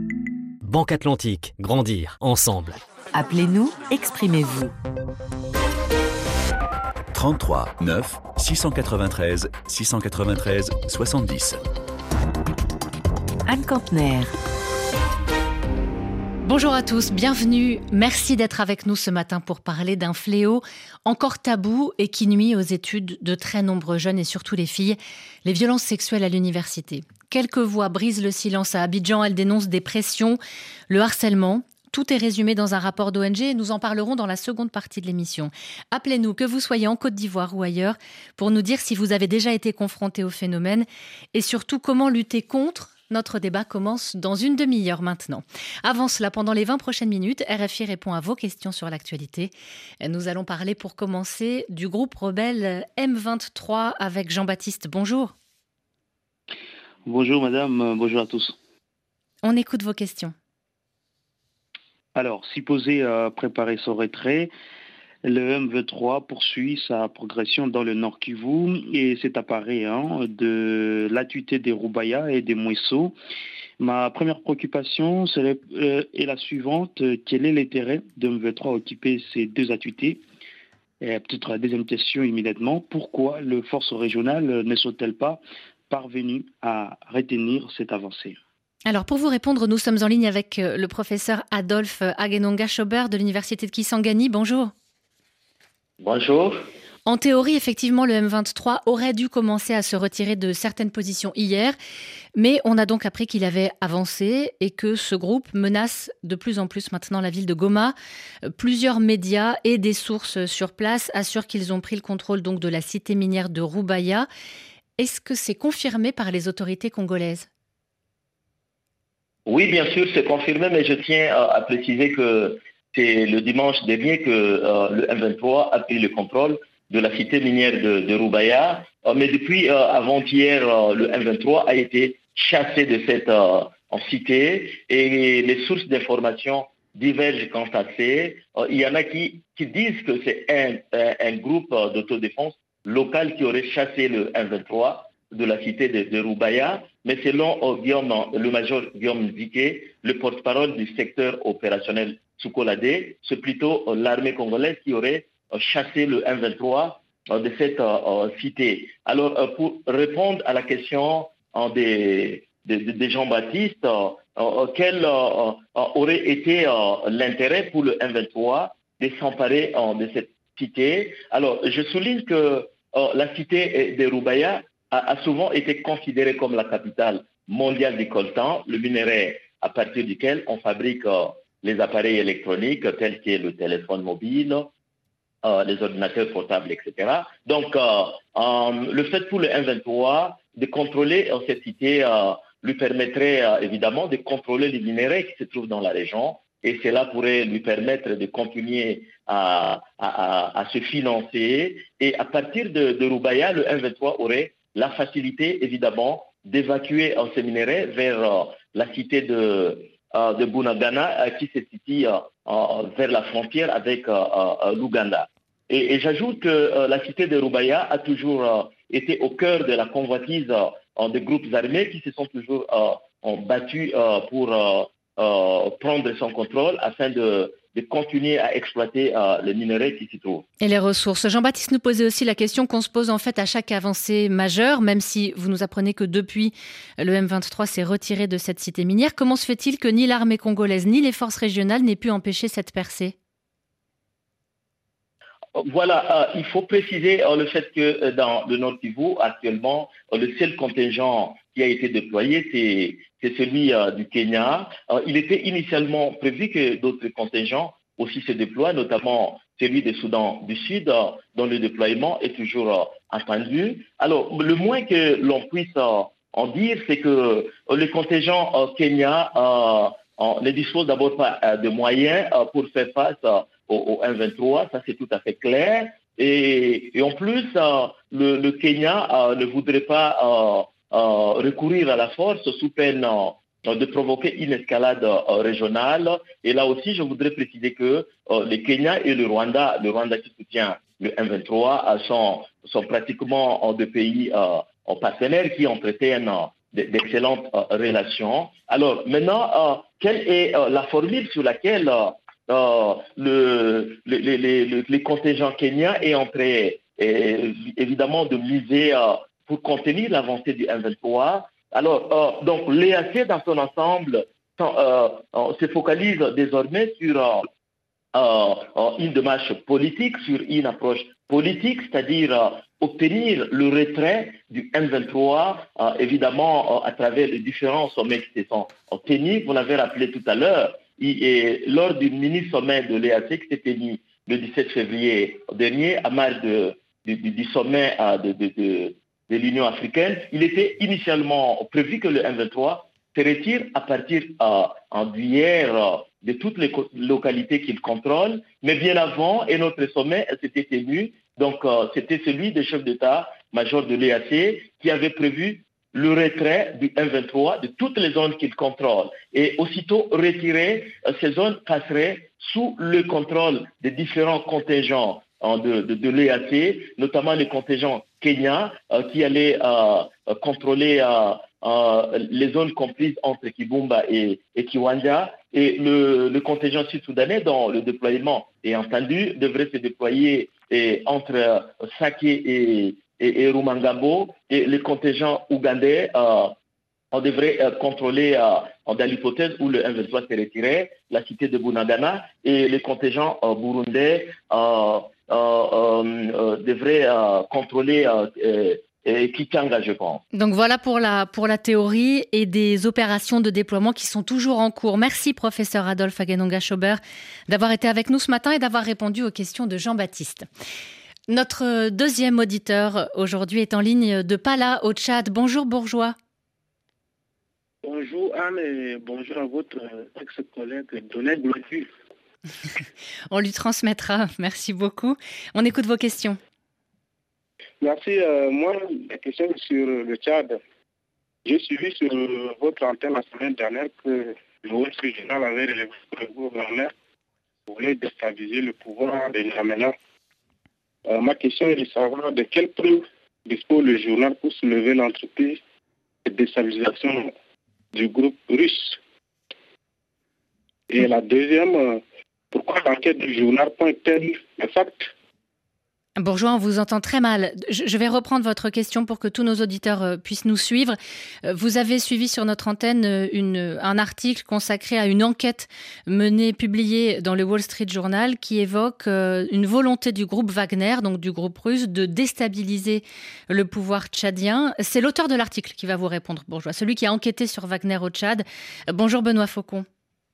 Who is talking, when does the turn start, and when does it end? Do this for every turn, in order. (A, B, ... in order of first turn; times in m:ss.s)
0:00.6-0:02.8 A
0:03.2-0:04.6 B
0:07.1-0:11.6 C
0:13.5-0:14.2 B
0:16.4-0:55.3 D
0:57.0-0:58.6 E
0:59.4-1:00.3 D
1:02.1-1:04.5 E
1:05.2-1:13.1 E
1:13.8-1:20.2 E
1:21.0-1:28.4 E
1:28.8-1:34.7 D
1:36.0-1:36.7 F
1:37.0-1:41.7 D
1:42.3-1:47.9 D
1:48.6-1:54.3 D
1:55.0-1:57.5 D
1:59.4-3:04.7 F
3:05.4-3:50.4 F
3:50.6-4:03.1 D
4:05.6-5:17.5 F
5:18.1-6:26.5 F
6:27.1-6:40.2 F
6:40.3-6:50.4 D
6:51.3-6:56.1 D
6:57.8-7:01.9 G
7:03.3-7:06.4 D
7:07.8-7:10.6 G
7:11.4-7:16.9 G
7:17.7-7:19.9 G
7:21.0-7:25.6 G
7:26.2-7:27.3 G
7:27.9-7:29.0 G
7:30.9-7:35.1 G
7:36.2-7:59.8 D